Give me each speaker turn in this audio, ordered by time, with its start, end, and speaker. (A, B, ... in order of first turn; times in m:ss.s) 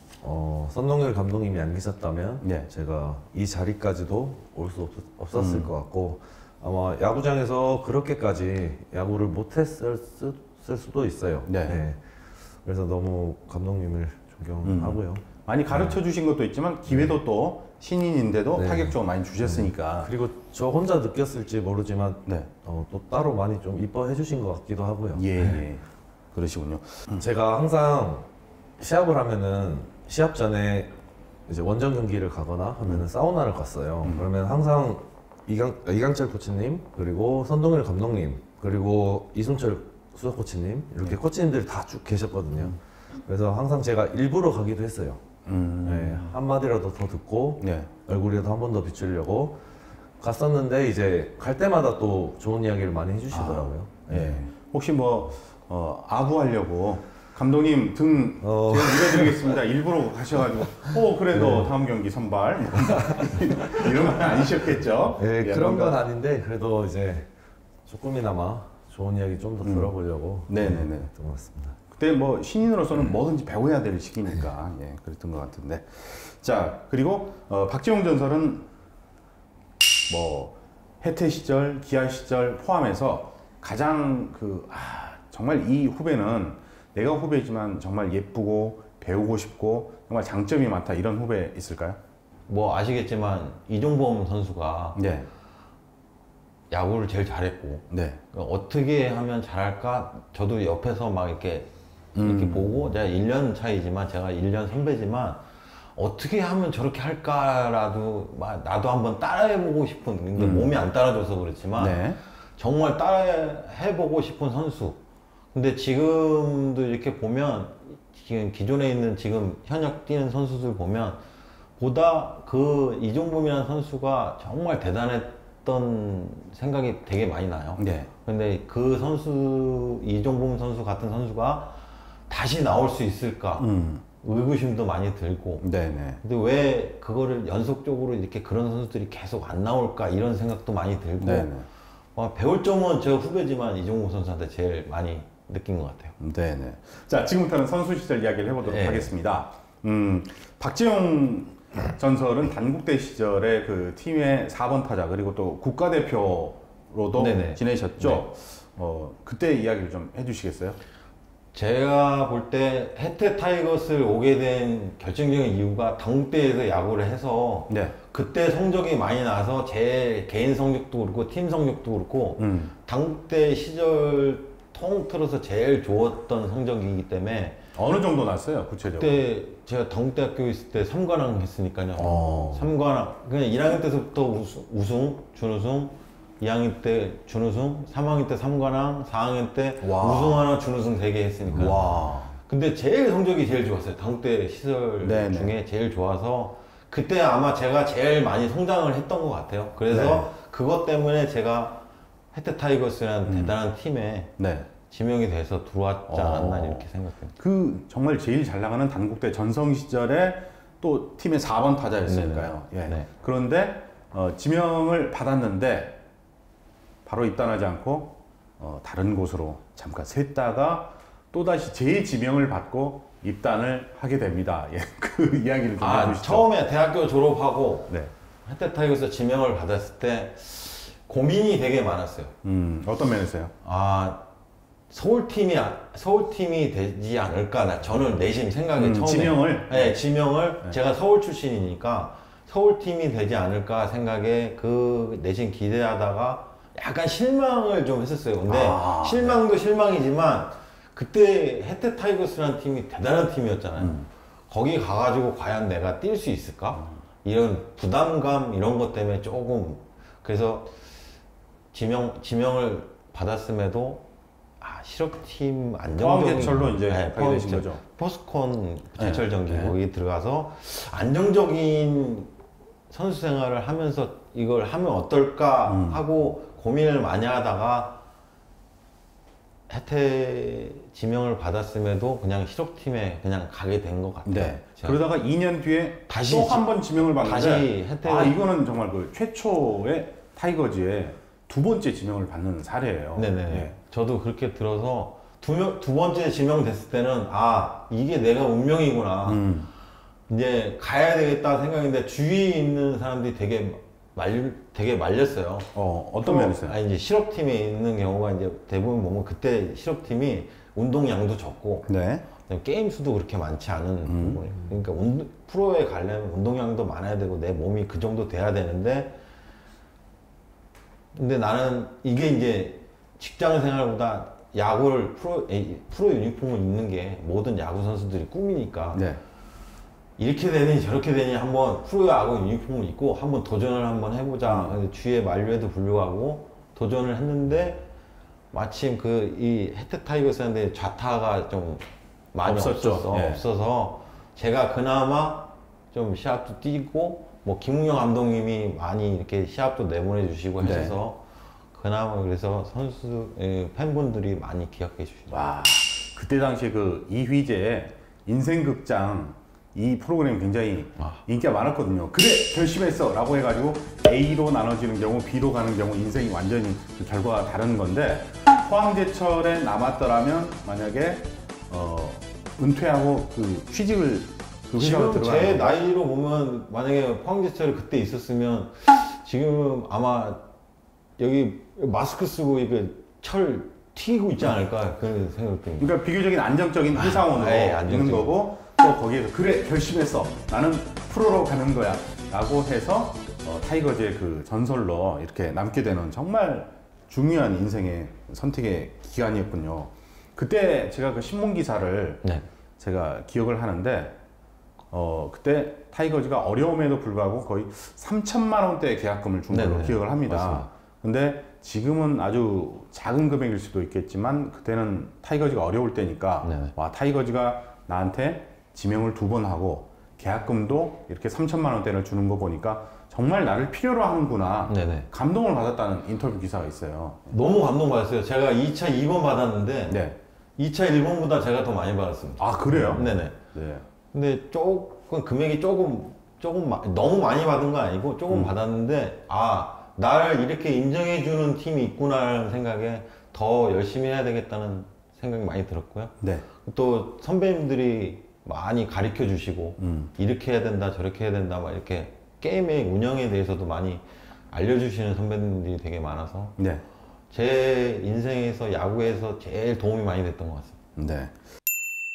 0:00.2-0:16.0 A
0:02.4-0:02.7 B
0:05.4-0:05.7 B
0:11.5-0:11.8 B
0:14.6-0:20.1 B
0:18.5-0:25.6 A
0:22.3-0:22.5 B
0:25.1-0:27.2 B
0:27.2-0:28.3 A
0:28.8-0:31.0 A
0:31.5-0:45.2 A
0:34.0-0:34.3 B
0:45.5-0:46.4 B
0:45.8-0:49.6 A
0:47.6-0:47.9 B
0:50.2-0:54.5 A
0:53.3-1:06.0 B
0:58.4-0:59.4 A
1:00.8-1:01.7 A
1:02.9-1:03.9 A
1:05.2-1:07.3 A
1:07.9-1:11.8 A
1:09.6-1:09.9 B
1:10.5-1:11.1 B
1:11.9-1:18.7 B
1:20.1-1:32.0 B
1:32.5-1:35.0 C
1:35.0-1:35.3 B
1:36.7-1:45.4 C
1:37.9-1:38.2 B
1:42.2-1:42.8 B
1:46.0-1:52.0 C
1:50.4-1:50.8 B
1:51.8-1:52.2 B
1:52.6-1:55.0 C
1:55.5-2:01.2 C
2:01.8-2:13.7 C
2:07.8-2:08.1 B
2:13.6-2:14.0 B
2:14.2-2:15.6 C
2:15.6-2:16.2 B
2:16.2-2:21.5 C
2:21.2-2:21.7 B
2:22.2-2:26.2 C
2:26.2-2:40.8 B
2:28.6-2:29.1 C
2:37.2-2:38.2 C
2:41.5-2:57.6 C
2:47.7-2:48.0 B
2:52.4-2:52.7 B
2:57.7-2:59.2 B
2:58.9-3:24.3 C
3:02.0-3:02.7 B
3:09.8-3:10.5 B
3:11.6-3:12.4 B
3:15.0-3:15.5 B
3:19.9-3:20.3 B
3:23.3-3:23.6 B
3:24.4-3:24.7 B
3:24.9-3:27.3 C
3:26.1-3:36.0 B
3:32.1-3:33.1 C
3:37.0-3:46.5 B
3:45.8-3:52.3 C
3:52.4-3:53.5 B
3:53.6-3:54.3 C
3:54.9-4:20.9 C
3:58.8-4:00.0 B
4:08.5-4:09.4 B
4:13.8-4:14.1 B
4:21.7-4:24.1 C
4:24.6-4:32.3 C
4:25.9-4:27.8 B
4:29.0-4:29.8 B
4:32.9-4:38.0 C
4:35.7-4:36.0 B
4:39.7-4:45.0 C
4:44.2-4:53.8 B
4:46.1-4:46.7 C
4:47.2-4:48.4 C
4:53.2-4:59.5 C
4:59.3-4:59.7 B
5:00.3-5:19.2 C
5:05.8-5:06.8 B
5:11.9-5:12.3 B
5:14.0-5:14.4 B
5:21.1-5:29.1 C
5:28.9-5:29.2 B
5:30.2-5:37.9 C
5:34.5-5:34.8 B
5:38.5-5:55.5 C
5:42.4-5:43.4 B
5:50.6-5:51.0 B
5:55.3-6:15.8 B
6:14.8-6:20.5 C
6:21.2-6:25.9 C
6:25.8-6:42.2 B
6:26.9-6:28.4 C
6:42.8-6:44.2 B
6:44.9-7:07.3 B
6:49.5-6:50.7 C
6:56.4-6:56.7 C
7:04.7-7:05.1 C
7:07.3-7:10.0 C
7:09.9-7:10.2 B
7:10.6-7:13.4 C
7:12.4-7:13.9 B
7:14.1-7:36.6 C
7:26.2-7:26.5 B
7:29.8-7:30.1 B
7:36.6-7:36.8 B
7:37.3-7:40.8 C
7:41.0-7:41.4 B